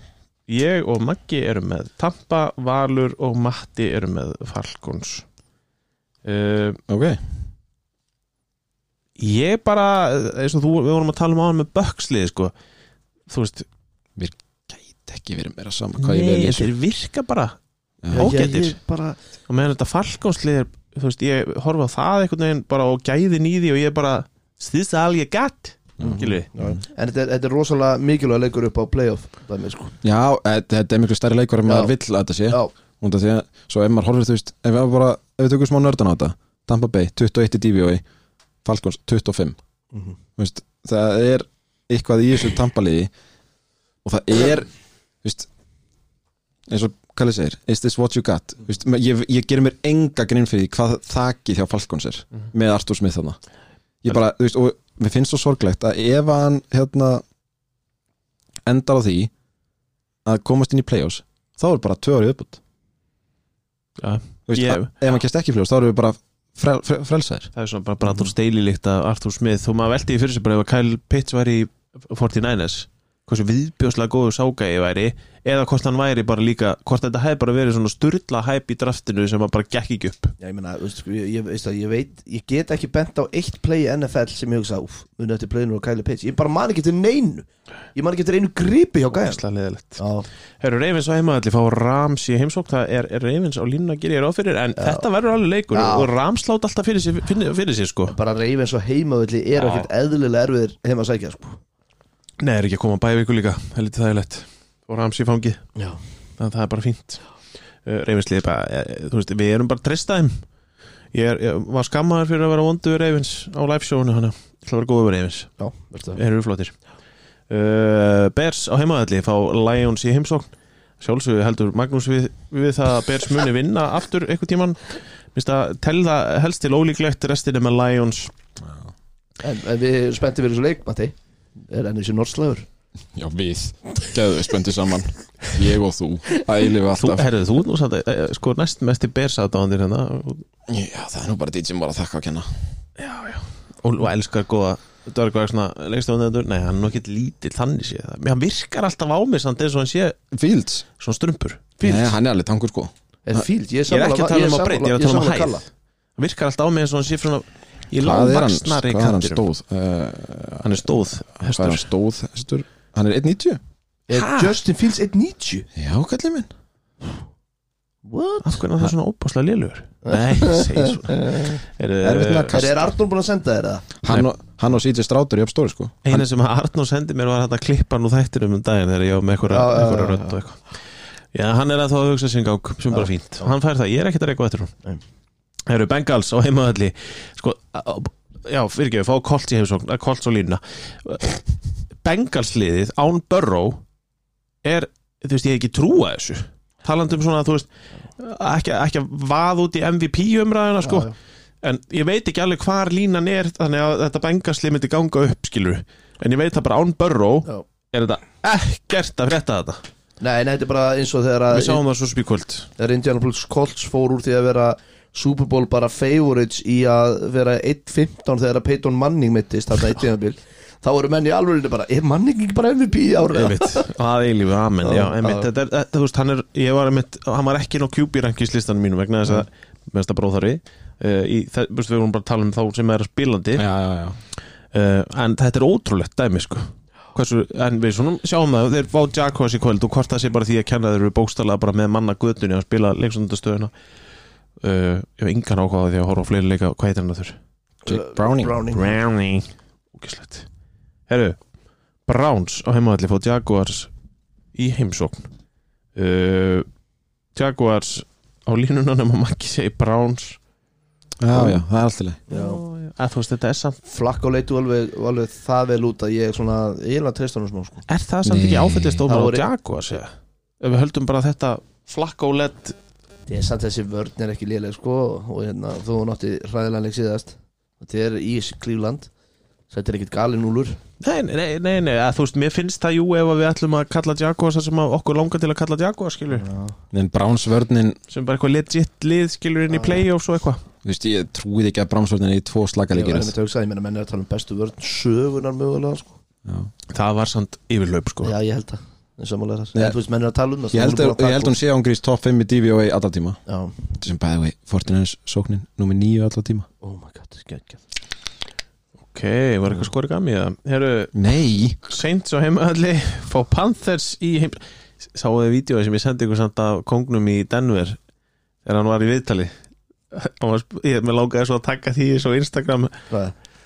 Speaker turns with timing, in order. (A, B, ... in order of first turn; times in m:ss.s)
0:00.5-0:05.2 A
0:06.2-0:06.8 A
0:06.9-0:07.2 B
0:09.2-0:12.5 A
0:13.3-0:13.7 A
0:14.2-0:16.7 B
0:16.0-0:17.6 A
0:18.1-0:18.8 A
0:18.1-0:19.2 C
0:19.5-0:26.5 A
0:26.0-0:26.8 B
0:26.0-0:29.9 C
0:30.0-0:38.0 B
0:31.6-0:31.9 C
0:38.6-0:39.6 B
0:40.4-0:43.1 B
0:44.0-0:44.7 B
0:45.2-0:45.5 B
0:46.7-0:53.4 B
0:54.0-0:57.2 B
0:58.6-0:59.3 B
1:00.2-1:02.6 B
1:04.0-1:04.9 A
1:04.5-1:07.5 B
1:07.5-1:20.3 A
1:20.4-1:29.4 C
1:29.1-1:30.0 A
1:30.0-1:30.3 C
1:30.6-1:38.1 A
1:34.8-1:35.1 C
1:35.7-1:36.1 C
1:38.1-1:41.6 C
1:39.6-1:39.9 A
1:42.4-1:45.6 A
1:46.4-1:47.2 A
1:47.8-1:50.4 A
1:51.1-1:55.5 A
1:55.6-1:56.2 C
1:56.1-1:56.7 A
1:57.5-2:08.3 A
2:08.6-2:08.9 B
2:09.4-2:11.1 C
2:11.7-2:12.6 C
2:13.1-2:17.3 B
2:16.9-2:20.4 A
2:20.7-2:22.5 B
2:23.0-2:30.2 A
2:30.3-2:30.8 B
2:31.0-2:31.7 A
2:31.8-2:32.1 C
2:31.8-2:33.4 B
2:33.2-2:35.6 C
2:33.9-2:35.6 A
2:36.2-2:39.4 A
2:38.0-2:43.6 B
2:40.6-2:41.8 A
2:44.1-2:45.6 C
2:44.1-2:44.6 A
2:45.7-2:46.5 B
2:48.0-2:48.6 C
2:48.4-2:52.6 A
2:50.0-2:51.6 C
2:52.0-2:52.8 B
2:52.5-2:53.9 C
2:54.0-2:56.2 B
2:56.0-3:00.7 A
2:59.5-3:00.4 C
3:01.3-3:04.7 A
3:02.9-3:03.5 C
3:05.7-3:11.4 A
3:12.0-3:13.8 A
3:14.6-3:21.1 A
3:20.8-3:21.1 C
3:21.6-3:29.8 A
3:30.2-3:31.8 C
3:31.5-3:32.7 A
3:32.8-3:43.9 C
3:43.3-3:53.6 A
3:44.8-3:45.5 C
3:53.5-3:54.2 B
3:54.7-4:03.7 A
4:04.6-4:07.4 A
4:07.8-4:08.9 C
4:07.8-4:08.6 B
4:08.7-4:10.5 A
4:11.1-4:11.4 A
4:12.1-4:13.9 A
4:14.5-4:15.3 A
4:15.9-4:16.7 A
4:17.3-4:20.4 A
4:21.2-4:22.2 B
4:21.3-4:21.6 C
4:22.3-4:22.6 C
4:22.3-4:23.8 A
4:23.8-4:27.8 C
4:27.9-4:32.8 A
4:28.2-4:29.0 B
4:29.1-4:29.4 C
4:33.3-4:39.1 C
4:39.7-4:40.8 C
4:41.0-4:46.4 A
4:46.3-4:46.7 C
4:46.9-4:48.0 B
4:48.1-4:50.6 A
4:49.7-4:50.0 C
4:50.8-4:53.3 B
4:52.9-4:56.2 C
4:56.4-4:56.7 B
4:56.9-4:58.3 A
4:58.2-5:01.6 C
5:00.7-5:03.4 B
5:03.5-5:03.8 C
5:04.0-5:06.7 B
5:06.8-5:07.8 C
5:09.1-5:11.1 A
5:11.1-5:11.8 B
5:11.9-5:18.0 A
5:18.6-5:19.5 A
5:20.1-5:23.0 A